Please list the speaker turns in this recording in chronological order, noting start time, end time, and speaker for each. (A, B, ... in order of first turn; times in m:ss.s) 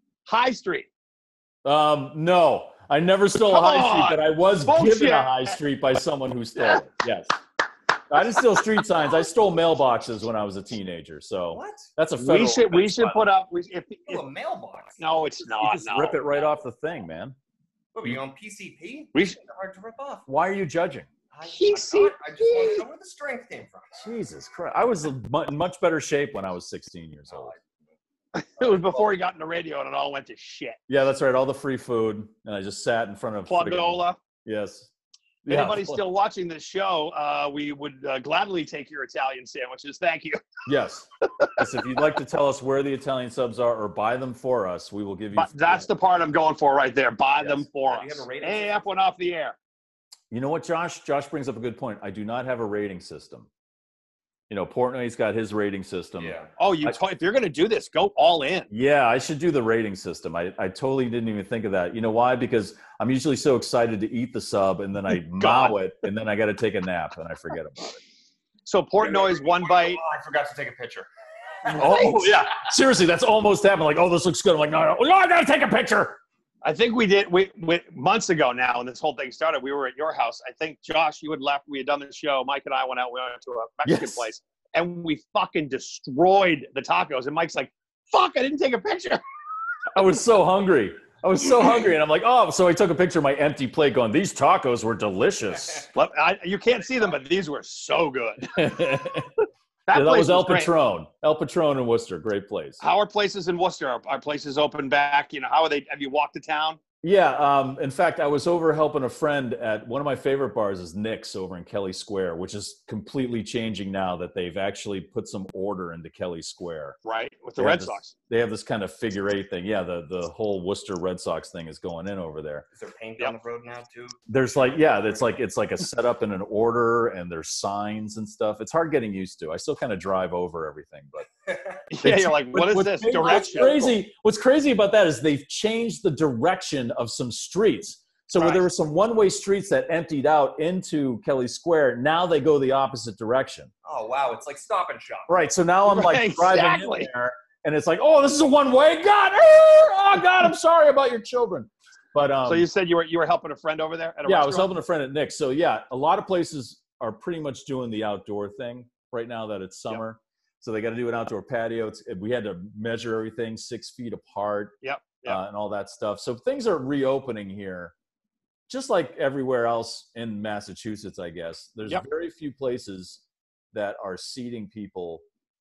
0:00.3-0:00.9 A
0:01.6-0:07.3 B
0:03.4-0:05.6 A
0:06.6-0:06.8 A
0:08.1-0:13.2 B
0:11.5-0:11.9 C
0:12.2-0:14.2 A
0:14.1-0:15.3 C
0:15.0-0:16.2 A
0:15.6-0:17.4 B
0:17.9-0:20.3 C
0:20.3-0:21.1 B
0:21.3-0:24.0 C
0:21.5-0:22.8 A
0:24.0-0:27.5 B
0:27.3-0:27.8 C
0:28.3-0:30.8 A
0:30.9-0:34.9 B
0:33.4-0:34.2 A
0:35.4-0:36.0 B
0:35.5-0:40.4 A
0:40.6-0:45.9 B
0:45.3-0:49.6 A
0:47.8-0:49.2 C
0:50.3-0:53.5 B
0:54.5-0:57.0 B
0:56.2-0:56.5 C
0:56.6-0:58.7 A
0:58.7-1:08.0 B
1:05.4-1:05.8 A
1:08.6-1:10.0 A
1:09.0-1:11.1 C
1:11.6-1:12.1 C
1:11.7-1:16.2 B
1:16.6-1:29.2 A
1:23.8-1:24.3 B
1:29.9-1:35.9 B
1:35.9-1:38.7 A
1:38.5-1:39.3 B
1:39.9-1:40.7 A
1:39.9-1:42.8 B
1:42.8-1:46.8 A
1:47.0-1:57.0 B
1:57.0-1:58.1 A
1:57.6-2:02.6 B
2:02.7-2:05.4 C
2:04.3-2:11.3 B
2:11.5-2:11.7 C
2:11.9-2:14.0 A
2:12.0-2:23.7 B
2:23.8-2:25.3 C
2:25.3-2:32.7 B
2:25.9-2:27.1 A
2:32.5-2:34.7 A
2:34.2-2:47.9 B
2:44.8-2:45.4 A
2:48.7-2:55.2 B